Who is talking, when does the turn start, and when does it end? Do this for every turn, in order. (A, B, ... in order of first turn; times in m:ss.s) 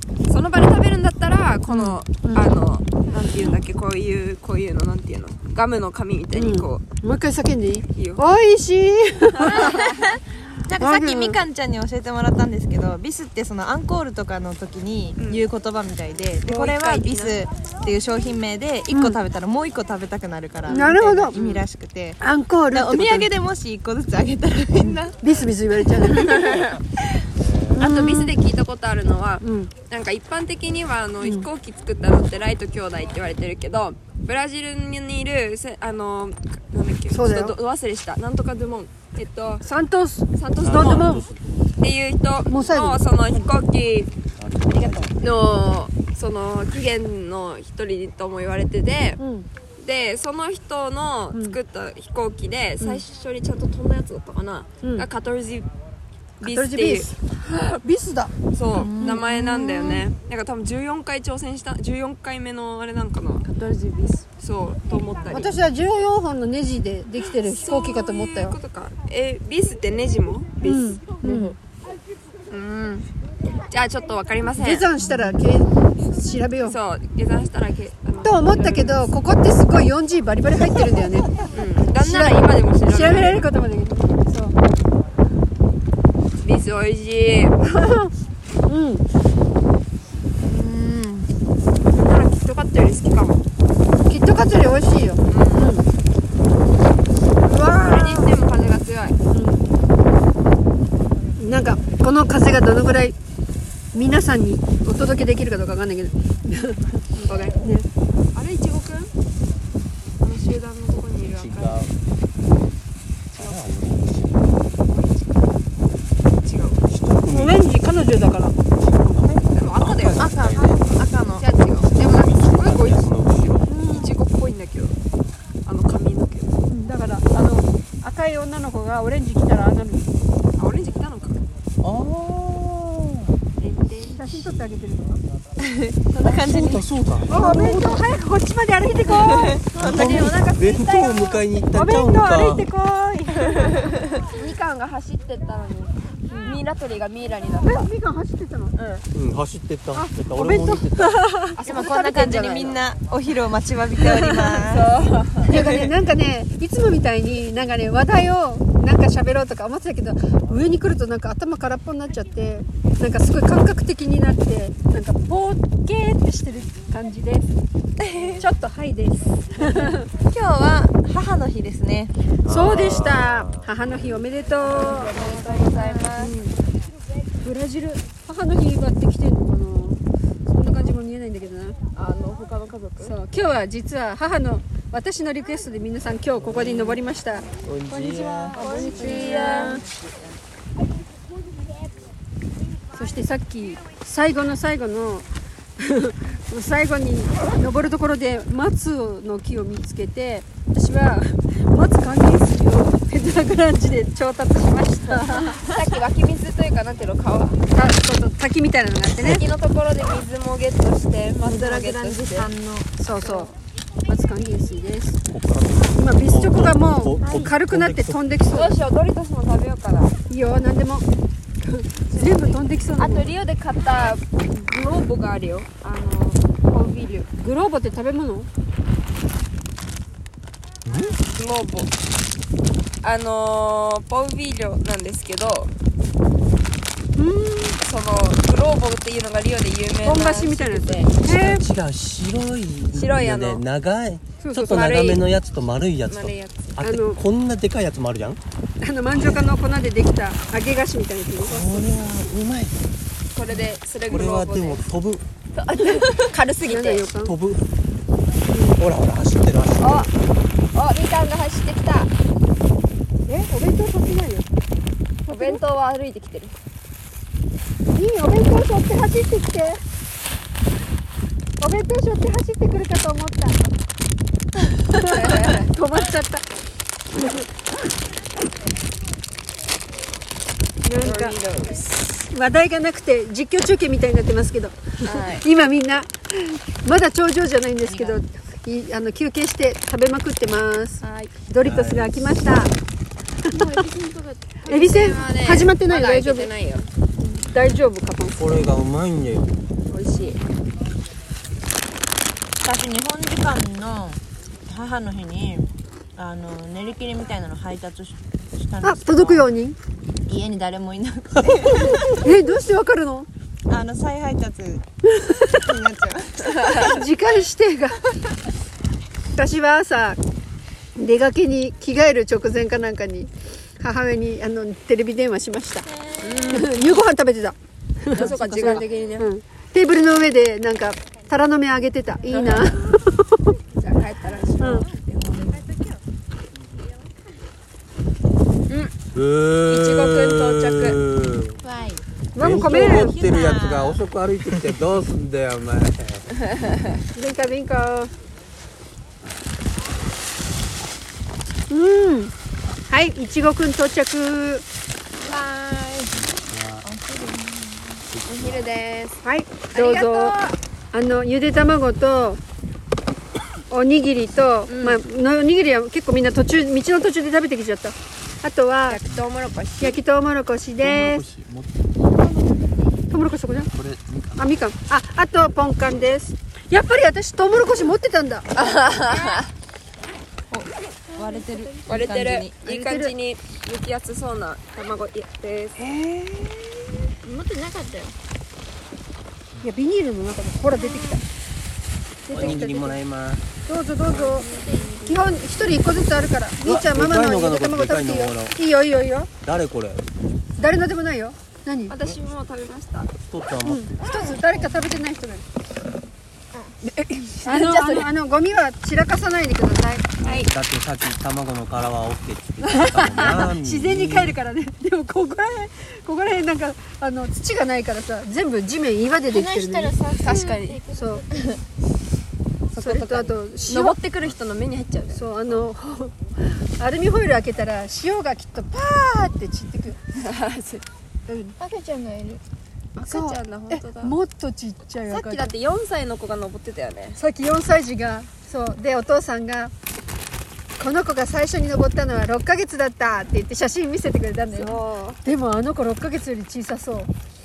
0:00.3-0:06.8 A
0:01.7-0:02.5 B
0:06.3-0:09.9 B
0:07.9-0:08.2 A
0:09.4-0:10.1 A
0:09.5-0:25.2 C
0:10.8-0:11.4 B
0:15.2-0:15.4 A
0:16.4-0:17.4 A
0:18.9-0:19.2 B
0:20.7-0:21.4 B
0:21.3-0:21.6 A
0:22.2-0:23.3 B
0:24.8-0:26.6 B
0:26.1-0:26.8 A
0:27.4-0:27.8 D
0:27.8-0:28.3 B
0:27.8-0:39.6 A
0:29.4-0:29.7 B
0:31.2-0:31.5 B
0:37.1-0:37.6 B
0:39.6-0:41.2 B
0:40.4-0:41.2 A
0:40.6-0:41.6 D
0:41.8-0:44.1 A
0:42.5-0:43.0 B
0:44.4-0:45.2 D
0:44.7-0:49.2 A
0:49.2-0:49.5 B
0:49.8-0:55.7 A
0:54.8-0:55.1 B
0:56.4-0:57.2 B
0:56.4-0:57.8 A
0:57.8-0:58.3 B
0:58.5-1:03.4 A
0:58.7-1:00.0 C
0:59.0-0:59.2 B
1:03.4-1:04.2 C
1:04.3-1:05.5 A
1:05.3-1:08.6 B
1:07.4-1:11.0 A
1:10.6-1:11.5 B
1:11.2-1:11.6 C
1:12.5-1:14.9 A
1:14.6-1:16.8 B
1:16.6-1:19.1 A
1:18.2-1:21.4 B
1:21.4-1:23.5 A
1:21.9-1:24.6 B
1:26.4-1:27.6 A
1:27.6-1:28.1 B
1:28.7-1:29.0 B
1:30.4-1:31.3 C
1:31.9-1:33.4 A
1:34.0-1:35.8 B
1:35.3-1:35.8 A
1:37.4-1:38.4 B
1:37.6-1:39.2 A
1:39.3-1:39.6 B
1:41.4-1:43.1 B
1:43.9-1:47.9 B
1:47.1-1:47.6 A
1:48.3-1:49.1 A
1:50.2-1:51.9 A
1:51.3-1:51.9 D
1:53.3-1:53.6 A
1:53.3-1:54.6 D
1:54.9-1:55.5 A
1:56.4-1:56.8 A
1:56.9-2:01.0 D
1:57.3-1:58.6 B
1:59.4-2:00.3 A
2:00.2-2:01.4 C
2:01.3-2:03.1 A
2:01.8-2:04.0 D
2:03.7-2:04.1 B
2:03.8-2:05.0 A
2:05.6-2:06.6 A
2:06.7-2:10.1 B
2:10.6-2:11.4 A
2:11.8-2:13.3 D
2:13.6-2:14.2 A
2:14.1-2:15.2 B
2:15.6-2:17.8 C
2:16.2-2:17.9 D
2:17.3-2:23.8 B
2:19.1-2:20.2 C
2:19.7-2:22.7 D
2:19.8-2:20.6 A
2:24.3-2:27.9 A
2:26.3-2:26.6 B
2:27.6-2:28.7 B
2:28.7-2:29.0 A
2:29.1-2:31.2 D
2:29.9-2:31.6 B
2:31.6-2:32.8 A
2:31.6-2:34.9 C
2:34.2-2:35.6 A
2:35.5-2:35.9 C
2:35.5-2:47.5 B
2:48.0-2:48.4 C
2:48.4-2:50.1 B
2:50.3-2:52.1 C
2:52.4-2:53.9 D
2:52.4-2:56.6 B
2:54.6-2:56.4 A
2:54.8-2:56.0 C
2:57.4-3:01.8 B
3:01.9-3:03.2 A
3:03.0-3:09.8 B
3:06.4-3:07.0 D
3:07.6-3:08.6 D
3:08.5-3:09.8 E
3:08.6-3:09.8 A
3:09.0-3:09.7 C
3:12.9-3:25.7 B
3:25.1-3:27.6 A
3:27.7-3:29.4 B
3:29.2-3:32.5 A
3:31.4-3:32.9 C
3:33.0-3:33.5 B
3:33.2-3:33.5 A
3:34.0-3:35.2 B
3:35.3-3:38.2 D
3:35.9-3:38.8 B
3:37.2-3:37.5 E
3:38.5-3:40.1 A
3:40.3-3:41.0 B
3:41.6-3:43.3 B
3:42.1-3:47.3 A
3:47.4-3:48.5 B
3:50.8-3:51.2 D
3:51.3-3:51.9 A
3:53.0-3:55.7 A
3:57.2-3:57.8 B
3:57.8-4:01.1 A
4:00.0-4:01.6 B
4:01.2-4:08.4 D
4:02.9-4:03.6 A
4:04.4-4:04.8 B
4:04.5-4:05.2 A
4:06.1-4:06.7 A
4:06.8-4:07.2 B
4:08.8-4:11.8 B
4:09.1-4:09.5 D
4:11.4-4:12.8 D
4:13.3-4:14.9 A
4:13.5-4:15.2 D
4:15.6-4:17.1 A
4:16.6-4:17.4 B
4:17.2-4:17.6 D
4:18.5-4:18.8 B
4:18.8-4:20.1 D
4:19.8-4:20.1 A
4:20.7-4:22.1 A
4:23.2-4:24.4 B
4:25.2-4:25.6 B
4:25.3-4:26.5 A
4:27.9-4:29.8 B
4:31.6-4:33.6 B
4:34.8-4:36.4 B
4:34.9-4:35.7 A
4:37.2-4:37.4 B
4:40.8-4:41.4 B
4:41.0-4:42.3 A
4:42.3-4:52.7 B
4:45.0-4:45.4 A
4:47.8-4:48.2 C
4:51.0-4:51.3 E
4:51.6-4:52.4 D
4:53.4-4:53.8 B
4:53.5-4:55.2 E
4:54.6-4:56.9 A
4:54.7-4:56.5 B
4:57.2-4:58.4 B
4:58.4-4:59.6 D
4:59.9-5:00.4 A
5:02.6-5:09.5 C
5:08.8-5:09.8 B
5:10.2-5:12.3 C
5:11.7-5:13.3 B
5:13.7-5:14.8 C
5:15.1-5:15.7 B
5:15.4-5:17.0 C
5:16.6-5:18.0 B
5:19.3-5:20.2 B
5:21.0-5:25.9 B
5:26.2-5:26.8 A
5:26.5-5:33.4 B
5:28.1-5:29.3 A
5:28.1-5:28.8 C
5:32.3-5:32.8 A
5:33.8-5:34.9 A
5:34.6-5:34.9 B
5:34.9-5:35.9 C
5:38.7-5:38.9 A
5:39.1-5:41.6 D
5:39.7-5:41.0 A
5:41.6-5:44.0 C
5:42.3-5:43.1 B
5:42.4-5:46.3 D
5:46.5-5:46.9 A
5:47.1-5:48.1 B
5:51.7-5:52.3 B
5:52.9-5:54.6 B
5:55.2-5:56.2 C
5:56.4-5:56.8 D
5:56.8-5:58.0 C
5:58.2-5:58.5 D
5:58.2-6:00.6 A
5:59.2-6:02.4 B
6:03.7-6:09.0 B
6:04.7-6:05.0 A
6:08.9-6:10.0 A
6:09.8-6:11.3 B
6:10.8-6:11.7 D
6:12.0-6:13.0 E
6:13.1-6:13.7 B
6:13.8-6:14.4 D
6:14.4-6:18.5 B
6:18.5-6:19.5 A
6:20.5-6:22.6 C
6:21.1-6:22.2 E
6:21.8-6:25.9 A
6:22.6-6:23.1 B
6:25.9-6:26.4 B
6:27.2-6:28.1 E
6:29.6-6:31.2 B
6:30.8-6:31.1 E
6:32.2-6:33.0 B
6:32.3-6:33.5 D
6:33.6-6:34.5 B
6:34.1-6:35.5 A
6:34.2-6:35.0 E
6:35.0-6:39.3 B
6:36.6-6:38.6 D
6:39.4-6:40.0 D
6:40.6-6:41.9 B
6:41.9-6:43.1 A
6:43.2-6:44.1 D
6:43.6-6:45.4 B
6:46.8-6:48.1 A
6:47.4-6:50.1 B
6:50.2-6:54.4 D
6:50.2-6:50.5 A
6:52.6-7:00.0 B
6:59.3-7:01.6 E
7:00.2-7:00.8 A
7:00.9-7:01.2 B
7:02.7-7:05.3 A
7:02.8-7:04.0 B
7:05.1-7:10.0 B
7:10.1-7:10.8 A
7:11.3-7:11.6 B
7:11.6-7:12.4 E
7:13.0-7:14.2 A
7:13.0-7:15.5 B
7:15.1-7:17.2 A
7:17.2-7:19.7 B
7:20.8-7:27.1 B
7:24.5-7:25.2 A